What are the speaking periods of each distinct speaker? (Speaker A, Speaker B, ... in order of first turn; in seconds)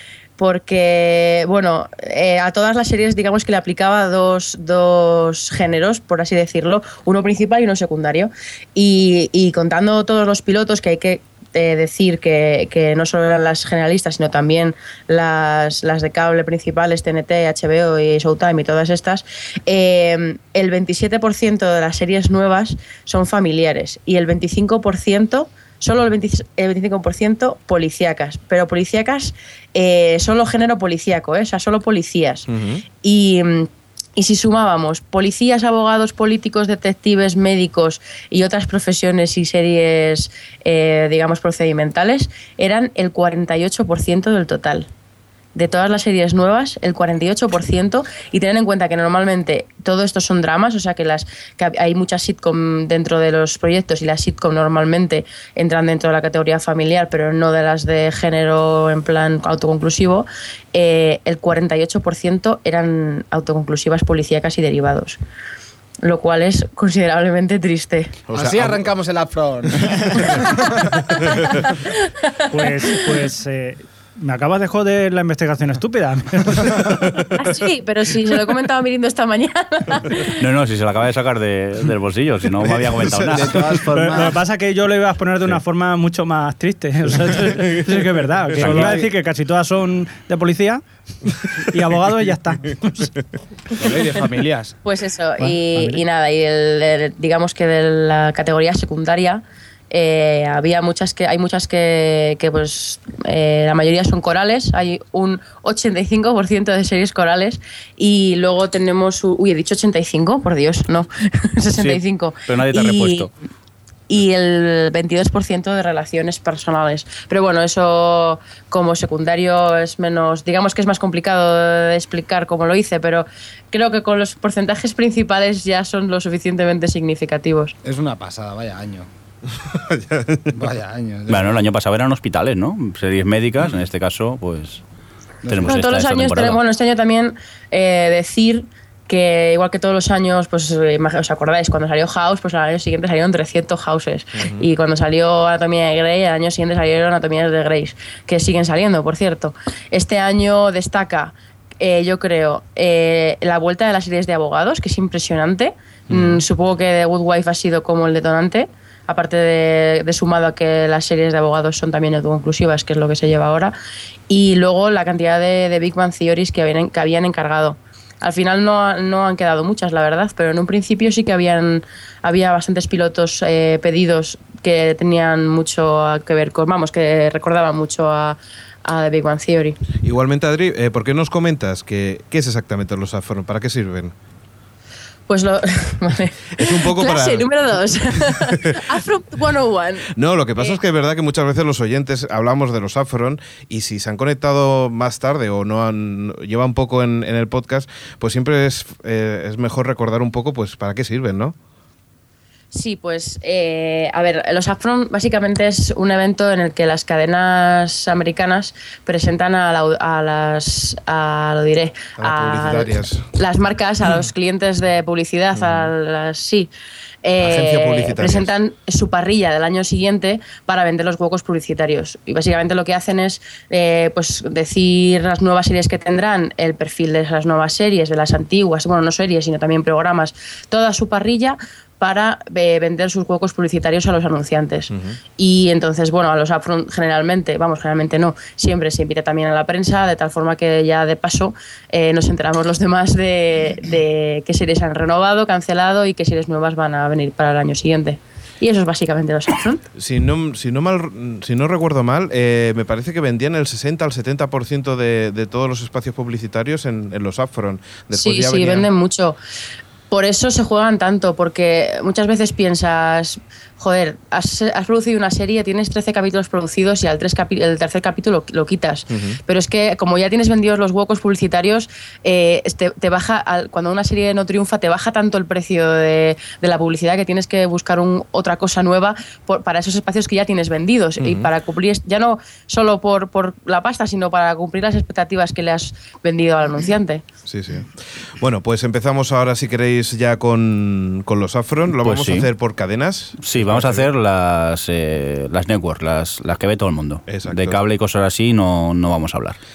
Speaker A: 0.4-32.5, 33.0-44.9, 45.5-65.2, 66.0-68.2, 72.0-73.0, 77.3-80.4, 94.8-113.3, 114.1-127.7, 135.6-163.7, 164.3-179.8, 185.3-190.8, 202.7-216.7, 217.2-249.8, 258.1-259.4, 260.1-287.2
Speaker B: 32.5-32.8, 68.3-68.9, 129.7-130.5, 144.4-144.7, 156.1-156.4, 180.0-184.1, 186.6-187.5, 188.4-188.8, 190.1-201.6, 212.2-213.2, 215.5-215.9, 217.4-218.5, 234.9-235.2, 250.0-258.9, 269.1-269.4, 281.2-281.5, 287.5-294.1, 297.3-297.8
Speaker C: 68.3-70.9, 83.0-84.3, 88.6-89.0, 93.7-94.7, 127.8-129.1, 130.5-131.6, 135.4-135.7
Speaker D: 72.5-77.2, 83.9-90.8, 91.6-93.2, 95.4-96.0
Speaker E: 80.4-83.9, 88.6-89.0, 111.8-113.3, 131.3-134.8, 135.5-136.6, 292.0-292.5, 293.4-299.6